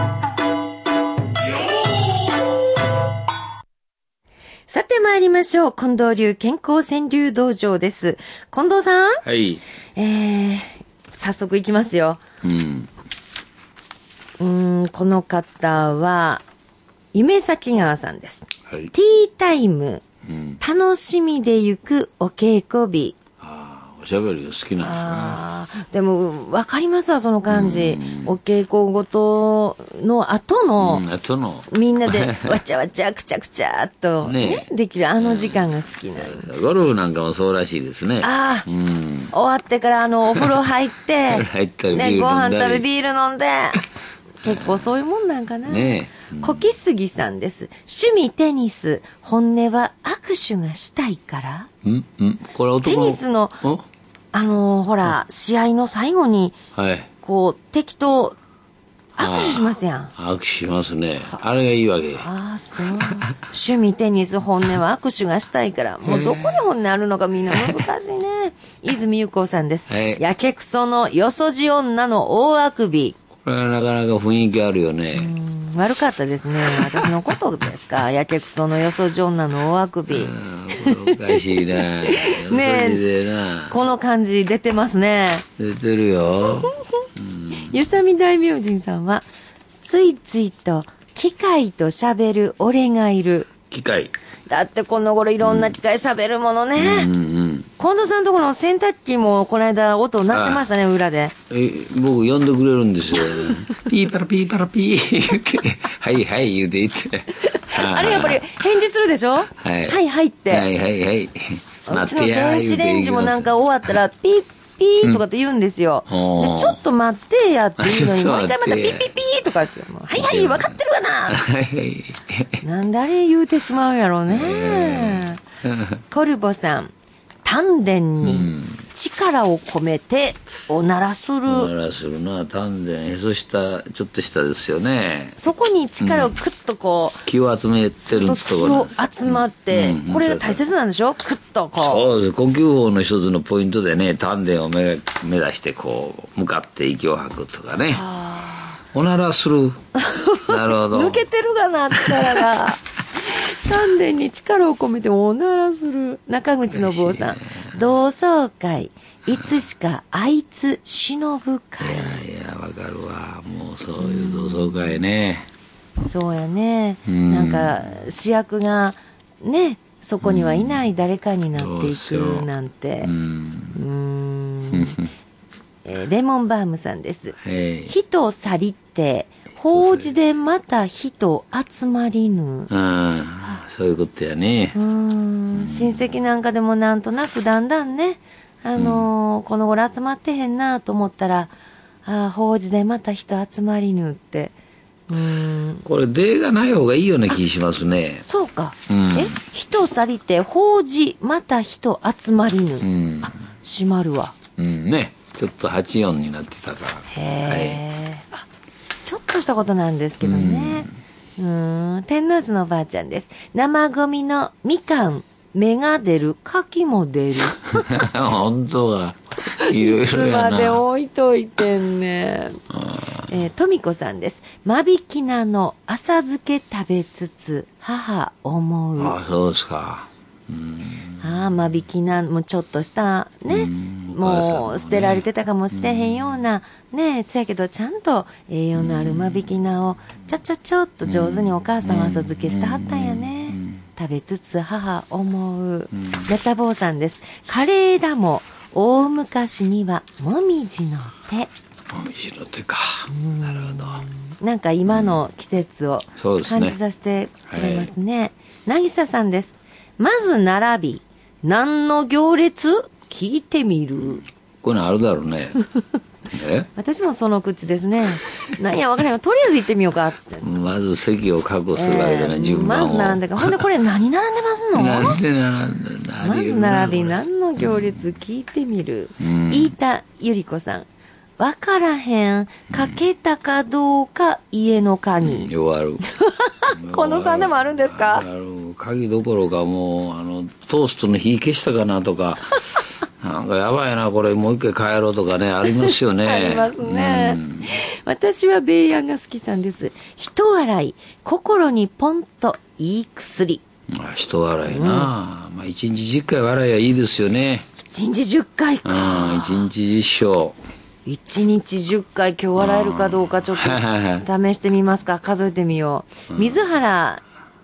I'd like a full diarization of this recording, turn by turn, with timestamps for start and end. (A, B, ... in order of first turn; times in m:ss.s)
0:04.7-0:09.2 A
0:09.2-0:09.6 B
0:10.0-0:12.2 A
0:12.4-0:12.9 B
0:14.4-0:16.4 A
0:17.1-0:20.0 A
0:20.3-0:20.6 B
0:20.6-0:23.2 A
0:23.4-0:25.4 B
0:24.8-0:31.0 A
0:27.5-0:28.4 B
0:30.8-0:32.6 B
0:31.7-0:36.5 A
0:34.2-0:34.7 B
0:35.2-0:39.3 B
0:38.2-0:38.7 A
0:39.3-0:43.9 A
0:41.3-0:42.8 B
0:44.4-0:51.7 A
0:44.4-0:44.9 B
0:45.6-0:46.7 B
0:51.8-0:53.8 B
0:52.7-0:53.6 A
0:54.3-0:56.6 A
0:56.8-0:57.1 B
0:57.2-0:58.4 A
0:59.2-1:00.1 A
0:59.2-1:02.3 B
1:02.2-1:13.2 A
1:02.9-1:03.2 B
1:06.0-1:06.6 B
1:09.9-1:10.2 B
1:13.4-1:15.3 B
1:15.1-1:23.0 A
1:16.7-1:17.1 B
1:20.1-1:23.8 B
1:23.7-1:25.4 A
1:25.6-1:27.8 B
1:26.6-1:27.0 A
1:27.5-1:29.3 A
1:29.8-1:33.5 A
1:33.7-1:34.1 B
1:34.5-1:37.1 A
1:35.4-1:35.7 B
1:36.8-1:37.7 B
1:37.8-1:41.3 A
1:40.3-1:40.6 B
1:41.5-1:48.4 B
1:43.2-1:43.8 A
1:47.4-1:50.7 A
1:49.6-1:50.0 B
1:50.5-1:53.5 B
1:51.9-2:01.4 A
1:56.1-1:56.8 B
1:57.8-1:59.1 B
2:00.2-2:00.8 B
2:01.3-2:02.6 B
2:02.6-2:05.4 A
2:04.3-2:06.0 B
2:06.1-2:06.9 A
2:07.4-2:11.7 A
2:08.2-2:08.9 B
2:11.5-2:16.3 B
2:15.4-2:17.2 A
2:17.2-2:20.6 B
2:18.0-2:22.1 A
2:21.8-2:28.0 B
2:27.9-2:28.8 A
2:28.9-2:29.8 B
2:30.0-2:42.2 A
2:30.4-2:31.2 B
2:31.9-2:32.5 B
2:36.7-2:37.7 B
2:41.8-2:45.5 B
2:44.0-2:45.0 A
2:46.0-2:53.1 A
2:47.0-2:47.8 B
2:50.2-2:50.8 B
2:51.5-2:52.5 B
2:53.0-2:53.8 B
2:53.8-2:55.0 A
2:54.7-2:55.1 B
2:55.8-3:02.7 A
2:57.4-2:57.9 B
2:59.6-3:00.1 B
3:02.7-3:04.8 B
3:04.8-3:11.5 A
3:05.5-3:06.1 B
3:08.8-3:09.1 B
3:12.0-3:14.5 A
3:15.1-3:15.8 A
3:15.8-3:18.2 B
3:18.2-3:24.3 A
3:18.9-3:19.4 B
3:22.8-3:23.3 B
3:24.6-3:27.8 B
3:27.1-3:28.4 A
3:29.0-3:38.1 A
3:30.2-3:30.9 B
3:37.7-3:40.8 B
3:39.5-3:49.2 A
3:42.7-3:43.2 B
3:49.0-3:51.3 B
3:51.2-4:11.5 A
3:53.5-3:56.4 B
3:58.8-3:59.5 B
4:01.0-4:03.8 B
4:05.9-4:06.3 B
4:11.9-4:14.0 B
4:13.1-4:24.2 A
4:14.9-4:15.2 B
4:16.2-4:16.8 B
4:17.5-4:17.9 B
4:24.0-4:25.6 B
4:26.3-4:26.7 B
4:26.8-4:30.5 A
4:30.4-4:33.6 B
4:31.7-4:35.2 A
4:34.7-4:38.0 B
4:36.2-4:40.8 A
4:39.2-4:39.7 B
4:41.4-4:45.5 A
4:42.7-4:43.0 B
4:45.2-4:46.0 B
4:46.0-4:48.2 A
4:46.7-4:52.5 B
4:53.2-4:57.8 B
4:55.7-5:03.6 A
5:03.9-5:07.7 B
5:04.6-5:05.1 A
5:07.8-5:09.7 A
5:08.8-5:10.6 B
5:11.0-5:17.2 A
5:12.6-5:14.2 B
5:16.3-5:16.6 B